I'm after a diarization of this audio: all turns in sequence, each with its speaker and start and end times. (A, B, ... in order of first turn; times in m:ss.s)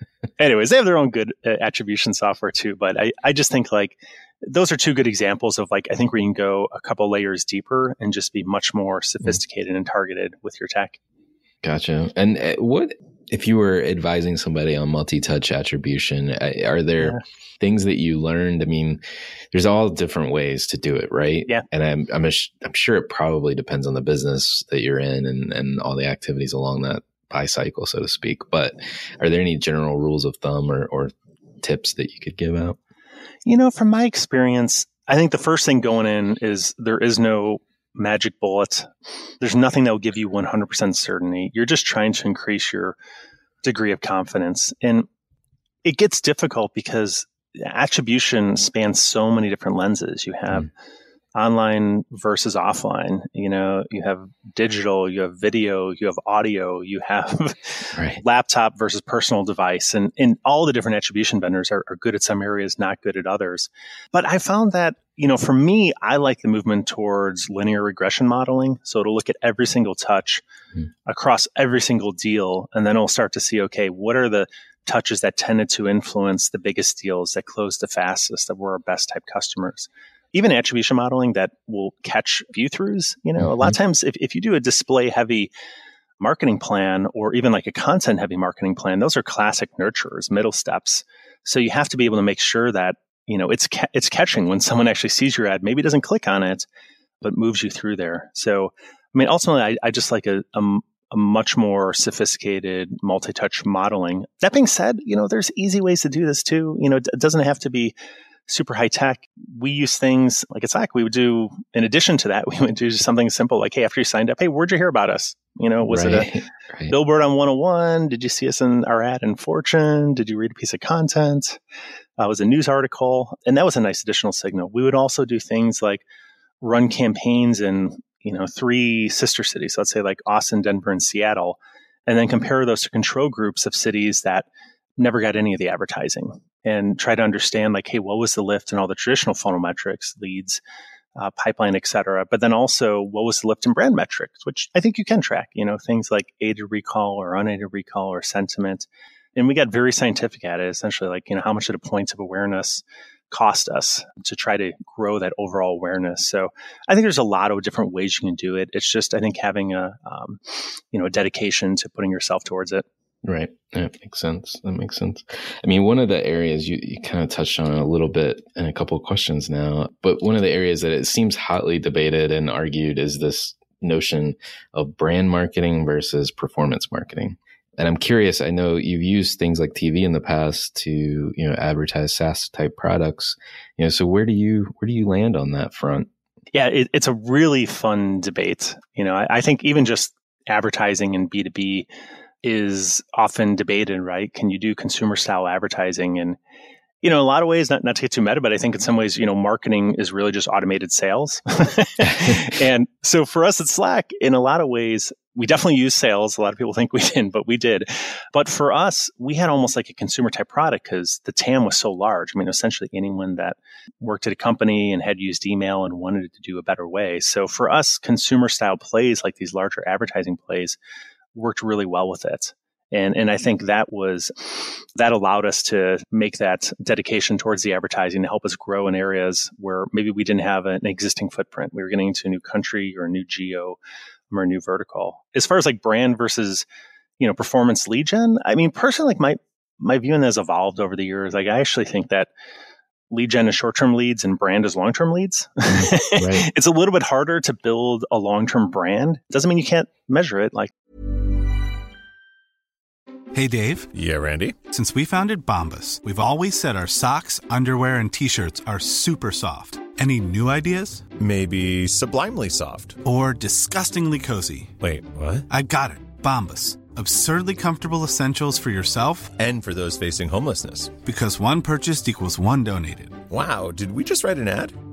0:00.4-0:11.0 A
0:11.6-0:19.0 B
0:19.5-0:32.8 B
0:33.5-0:38.9 A
0:39.4-0:43.0 A
0:43.6-0:45.1 A
0:45.8-0:50.7 A
0:51.4-1:10.4 A
0:58.0-0:58.2 B
1:11.1-1:25.5 A
1:23.4-1:23.7 B
1:26.2-1:36.7 A
1:37.2-1:47.9 A
1:48.5-1:56.3 A
1:55.8-1:57.0 B
1:56.9-2:01.6 A
2:02.2-2:06.0 A
2:06.6-2:14.5 A
2:15.0-2:20.6 A
2:21.2-2:40.4 A
2:40.9-2:42.8 A
2:43.2-3:06.1 B
3:06.5-3:11.9 A
3:12.4-3:16.4 A
3:17.0-3:40.8 A
3:41.4-3:53.8 A
3:54.3-3:56.7 A
3:57.2-4:02.3 A
4:03.1-4:10.7 A
4:05.7-4:06.5 B
4:13.3-4:13.9 C
4:13.9-4:14.6 D
4:14.7-4:21.1 C
4:21.2-4:23.0 D
4:23.0-4:24.8 C
4:24.8-4:25.5 D
4:25.5-4:29.4 C
4:29.4-4:31.0 D
4:31.0-4:33.2 C
4:33.3-4:34.8 D